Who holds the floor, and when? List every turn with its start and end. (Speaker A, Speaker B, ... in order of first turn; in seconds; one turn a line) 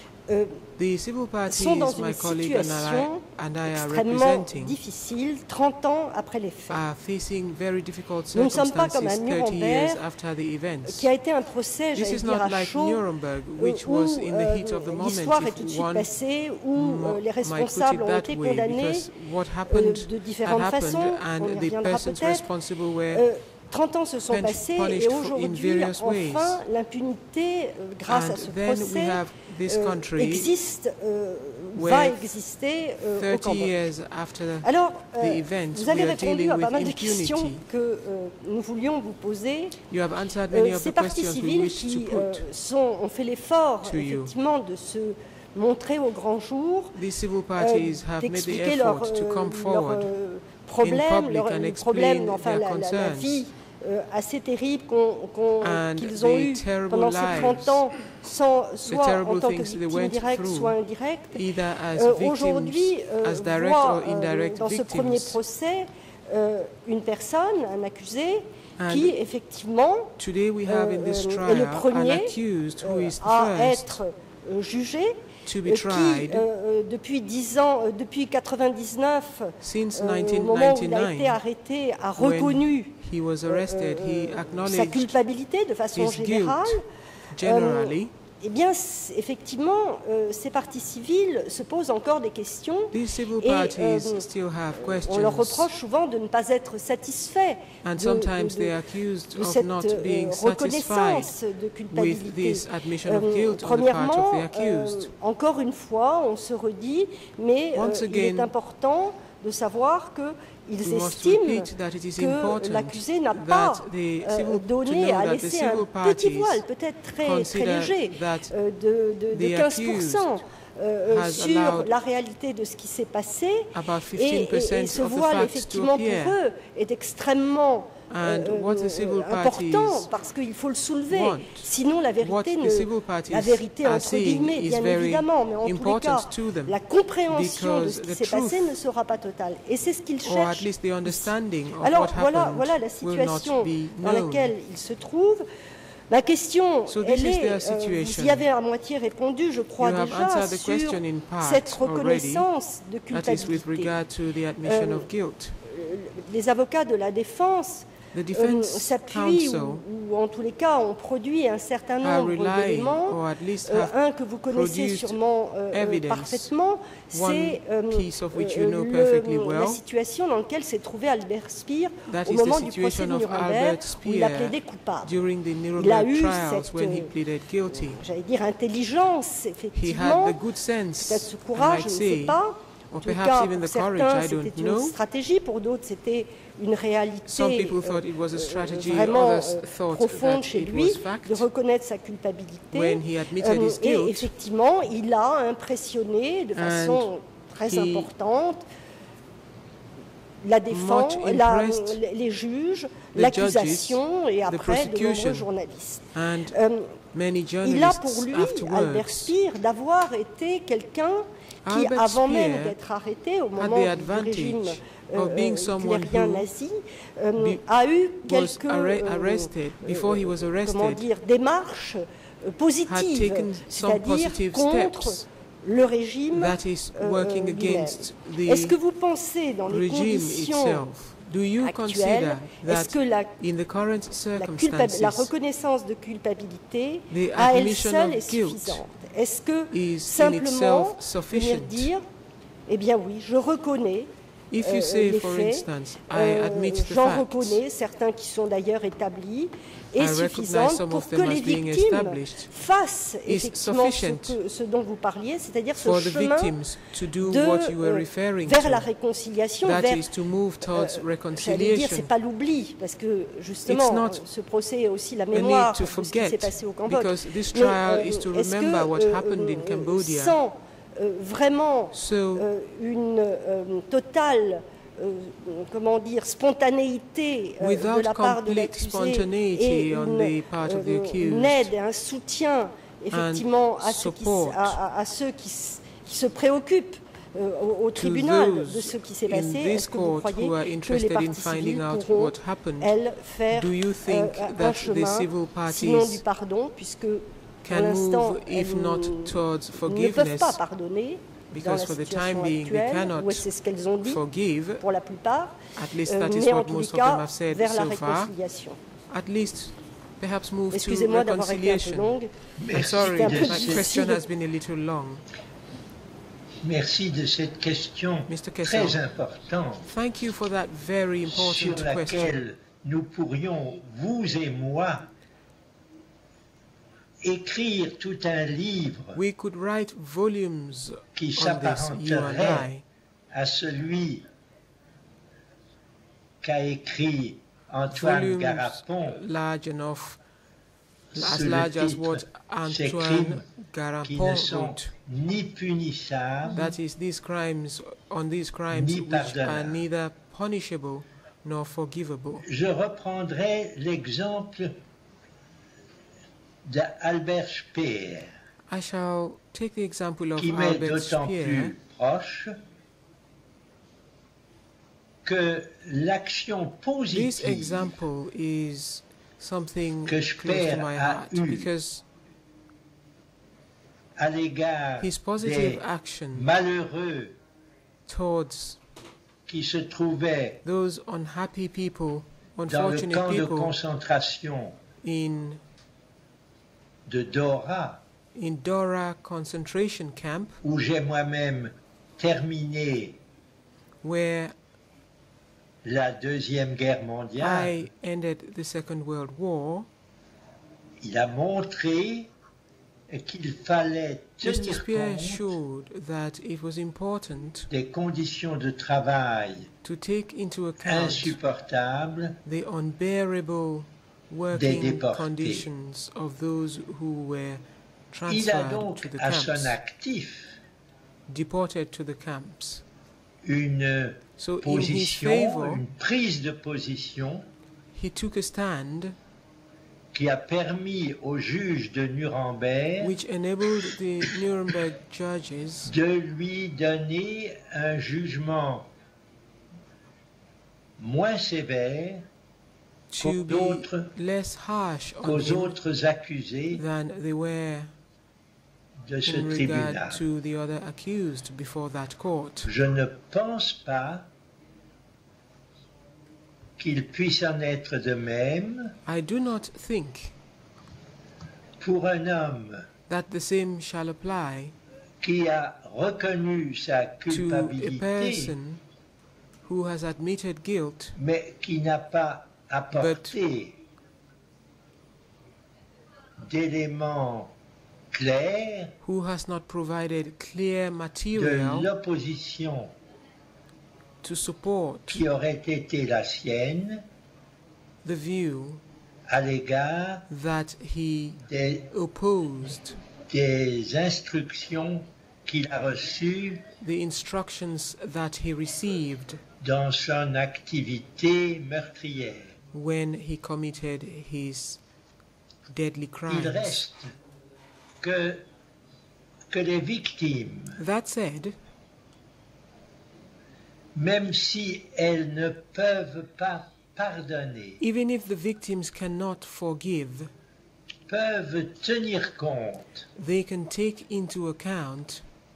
Speaker A: 0.3-0.6
Speaker B: 0.8-4.8
Speaker A: 1.4-6.8
Speaker B: 6.7-11.1
Speaker A: 8.3-10.0
Speaker A: 10.8-22.5
Speaker B: 11.9-16.2
Speaker B: 16.7-23.3
Speaker A: 23.1-33.8
Speaker B: 24.3-26.6
Speaker B: 28.0-30.5
Speaker B: 31.7-32.4
Speaker B: 33.2-37.6
Speaker A: 34.6-39.8
Speaker B: 39.9-42.5
Speaker A: 40.5-47.0
Speaker B: 43.8-44.3
Speaker B: 46.9-50.1
Speaker A: 47.5-70.1
Speaker B: 50.8-53.4
Speaker B: 55.6-58.1
Speaker B: 58.8-65.4
Speaker B: 68.8-69.2
Speaker B: 70.2-74.0
Speaker A: 70.6-86.8
Speaker B: 75.4-76.5
Speaker B: 79.6-81.4
Speaker B: 82.2-85.2
Speaker B: 85.9-86.8
Speaker B: 87.3-88.1
Speaker A: 87.4-98.8
Speaker B: 92.9-95.7
Speaker B: 97.8-101.3
Speaker A: 99.3-145.4
Speaker B: 101.9-105.1
Speaker B: 107.7-108.5
Speaker B: 110.8-116.7
Speaker B: 117.2-118.5
Speaker B: 119.3-120.4
Speaker B: 121.1-122.0
Speaker B: 123.7-126.4
Speaker B: 128.1-130.3
Speaker B: 131.1-138.8
Speaker B: 140.2-144.5
Speaker A: 146.1-154.0
Speaker B: 146.9-148.5
Speaker B: 149.8-152.5
Speaker B: 153.1-155.6
Speaker A: 154.6-155.1
Speaker A: 155.6-175.2
Speaker B: 158.1-159.8
Speaker B: 162.0-166.5
Speaker B: 167.1-169.8
Speaker B: 172.1-178.0
Speaker A: 175.7-177.2
Speaker A: 177.7-198.6
Speaker B: 179.7-185.0
Speaker B: 187.2-191.5
Speaker B: 192.7-194.3
Speaker B: 196.5-197.1
Speaker B: 197.6-198.1
Speaker A: 200.4-207.0
Speaker B: 200.7-202.0
Speaker B: 203.1-205.5
Speaker B: 206.1-206.6
Speaker B: 207.1-209.3
Speaker A: 207.6-230.9
Speaker B: 211.6-212.8
Speaker B: 213.6-216.5
Speaker B: 217.4-217.6
Speaker B: 218.2-221.1
Speaker B: 222.9-225.2
Speaker B: 226.3-228.8
Speaker B: 229.7-235.3
Speaker A: 231.6-233.3
Speaker A: 234.3-242.0
Speaker B: 237.1-238.8
Speaker B: 239.7-241.9
Speaker A: 242.7-256.7
Speaker B: 244.5-247.6
Speaker B: 249.9-252.5
Speaker B: 253.2-254.4
Speaker B: 255.7-258.9
Speaker A: 257.2-304.2
Speaker B: 259.6-262.1
Speaker B: 263.6-264.3
Speaker B: 265.3-270.4
Speaker B: 271.9-272.5
Speaker B: 277.6-281.7
Speaker B: 283.1-284.8
Speaker B: 287.9-293.0
Speaker B: 293.5-296.2
Speaker B: 297.6-300.6
Speaker B: 301.5-304.9
Speaker A: 304.8-308.8
Speaker B: 305.8-308.4
Speaker B: 309.1-315.2
Speaker A: 310.7-312.4
Speaker C: 312.6-314.0
Speaker A: 313.0-314.2
Speaker C: 316.6-319.9
Speaker B: 318.3-319.0
Speaker B: 319.8-322.4
Speaker C: 321.2-325.1
Speaker C: 327.2-329.2
Speaker B: 329.1-332.8
Speaker C: 331.1-332.7
Speaker C: 333.3-334.3
Speaker C: 336.4-339.2
Speaker B: 337.9-340.2
Speaker C: 341.1-343.5
Speaker B: 341.1-344.9
Speaker C: 344.0-346.8
Speaker B: 346.5-352.4
Speaker C: 348.7-349.8
Speaker C: 352.4-354.8
Speaker C: 356.6-358.3
Speaker B: 358.7-361.7
Speaker C: 360.4-362.5
Speaker C: 365.2-368.0
Speaker B: 367.1-372.0
Speaker C: 370.1-371.7
Speaker C: 374.2-375.8
Speaker B: 375.0-376.5
Speaker C: 376.3-377.4
Speaker B: 378.1-378.8
Speaker C: 379.5-380.6
Speaker B: 380.6-383.7
Speaker C: 382.7-384.8
Speaker B: 385.0-385.6
Speaker C: 387.1-388.0
Speaker B: 388.3-390.6
Speaker C: 390.6-393.2
Speaker B: 394.0-394.5
Speaker C: 395.8-397.9
Speaker B: 397.4-399.9
Speaker C: 401.0-402.3
Speaker C: 403.1-405.6
Speaker B: 404.4-407.7
Speaker C: 407.7-409.7
Speaker B: 409.8-411.4
Speaker C: 410.8-412.4
Speaker B: 412.4-419.8
Speaker C: 414.5-415.7
Speaker C: 418.3-420.6
Speaker B: 421.3-422.8
Speaker C: 423.4-427.5
Speaker B: 424.4-425.8
Speaker B: 427.9-429.1
Speaker C: 430.1-433.1
Speaker B: 433.0-435.9
Speaker C: 435.9-438.9
Speaker C: 441.0-442.2
Speaker B: 443.1-445.8
Speaker C: 443.2-444.1
Speaker C: 445.2-446.8
Speaker B: 446.7-447.9
Speaker C: 449.1-450.2
Speaker B: 449.2-452.7
Speaker C: 452.6-454.3
Speaker C: 456.8-458.9
Speaker B: 459.1-460.4
Speaker C: 461.8-462.9
Speaker B: 463.1-464.8
Speaker C: 465.2-468.6
Speaker B: 467.3-468.8
Speaker B: 469.6-471.1
Speaker C: 471.2-473.8
Speaker B: 472.9-473.4
Speaker C: 476.4-477.5
Speaker C: 478.1-478.9
Speaker B: 479.0-481.9
Speaker C: 481.3-482.9
Speaker B: 484.2-485.2
Speaker C: 485.1-487.0
Speaker B: 488.0-488.8
Speaker C: 489.3-490.2
Speaker B: 490.3-493.0
Speaker C: 491.5-491.9
Speaker C: 493.2-496.6
Speaker B: 496.8-499.4
Speaker C: 499.6-502.6
Speaker B: 502.7-504.8
Speaker B: 505.7-506.9
Speaker C: 506.3-507.1
Speaker C: 508.0-508.4
Speaker C: 509.5-510.8
Speaker B: 510.8-511.6
Speaker C: 513.9-517.8
Speaker B: 517.8-520.3
Speaker C: 521.1-523.1
Speaker B: 523.1-525.2